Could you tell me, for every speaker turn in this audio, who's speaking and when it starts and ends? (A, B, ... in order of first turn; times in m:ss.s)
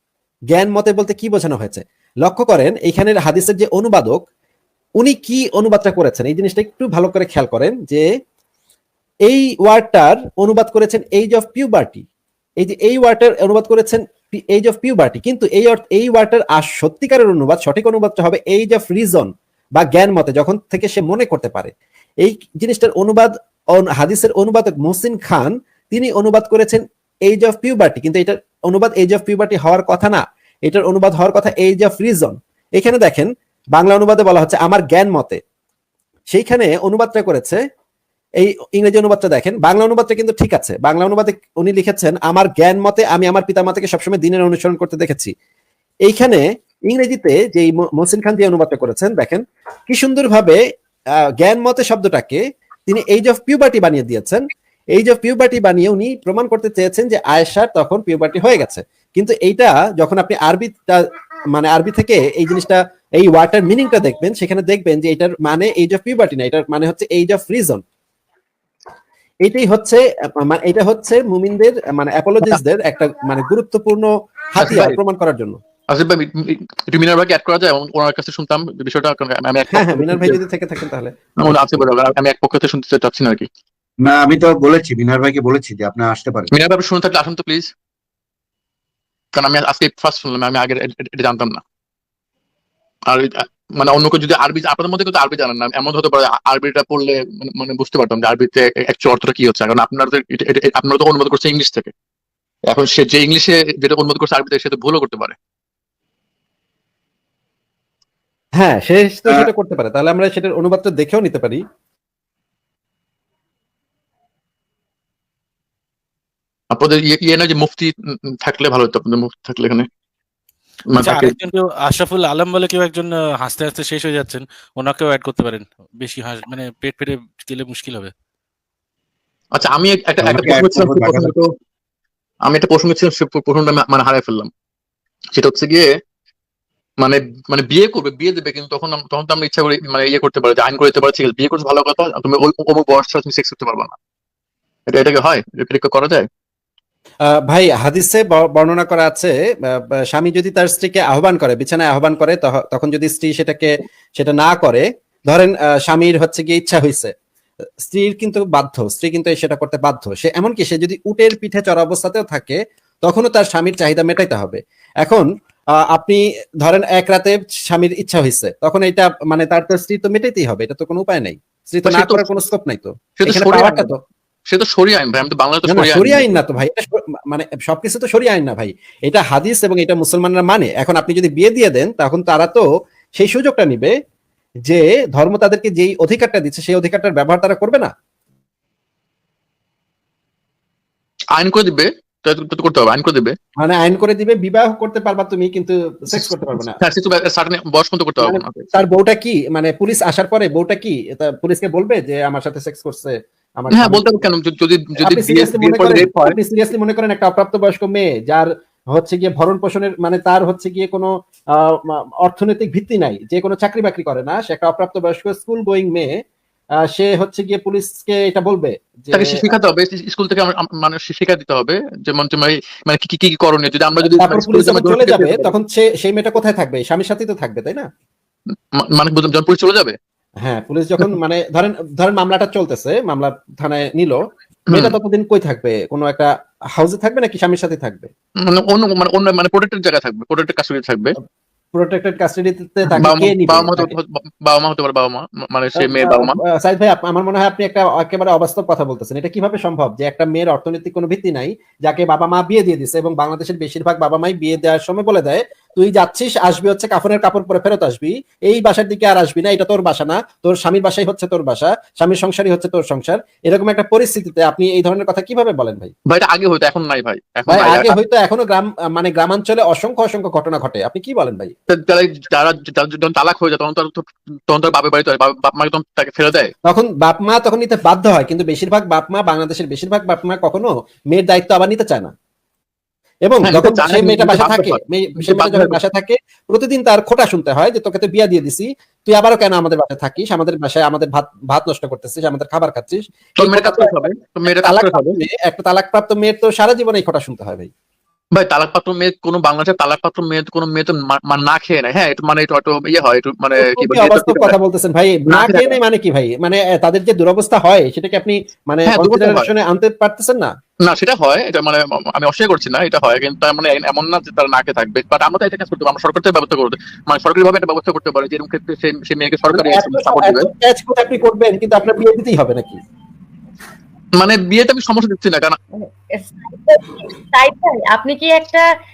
0:00.5-0:04.2 A
0:05.0-0:08.0 A
0:09.2-0:12.0 A
0:12.6-0:35.4 A
0:36.3-0:37.6 A
0:38.4-0:45.3 A
0:46.0-0:50.6 A
0:51.4-1:07.8 A
1:09.4-1:15.6 A
1:14.6-1:15.0 B
1:15.9-1:20.4 B
1:19.7-1:21.8 A
1:21.4-1:23.5 B
1:24.0-1:26.5 C
1:26.5-1:27.7 B
1:29.3-1:31.6 B
1:33.1-1:41.9 B
1:42.7-1:45.4 B
1:48.6-1:51.6 A
1:56.7-1:59.9 B
2:00.9-2:01.4 B
2:01.0-2:08.1 D
2:09.5-2:11.5 B
2:10.2-2:11.3 C
2:12.4-2:14.5 B
2:15.3-2:15.9 B
2:17.0-2:24.0 B
2:24.9-2:26.3 B
2:27.3-2:37.1 A
2:37.8-2:54.0 A
2:51.8-2:52.3 B
2:53.2-2:54.0 B
2:54.5-2:56.4 B
2:55.7-3:02.6 A
3:03.2-3:03.9 A
3:04.6-3:07.9 A
3:11.3-3:13.3 B
3:13.6-3:16.8 A
3:16.1-3:18.8 B
3:18.2-3:24.2 A
3:23.7-3:26.4 B
3:25.0-3:36.1 A
3:36.8-3:39.4 A
3:39.1-3:45.5 B
3:44.1-3:47.9 A
3:48.7-3:50.0 B
3:50.4-3:54.2 A
3:54.7-3:58.1 A
3:58.4-4:01.2 B
4:01.7-4:03.9 A
4:02.9-4:06.4 B
4:05.8-4:25.9 A
4:26.1-4:27.9 B
4:27.5-4:31.5 A
4:31.7-4:36.5 B
4:36.6-4:42.1 A
4:43.2-4:57.7 A
4:43.4-4:45.8 B
4:53.4-4:55.2 B
4:58.3-5:04.6 B
5:03.6-5:10.5 A
5:05.3-5:05.8 B
5:08.9-5:09.5 B
5:10.8-5:20.5 B
5:19.5-5:22.8 A
5:24.2-5:25.6 B
5:25.8-5:28.6 E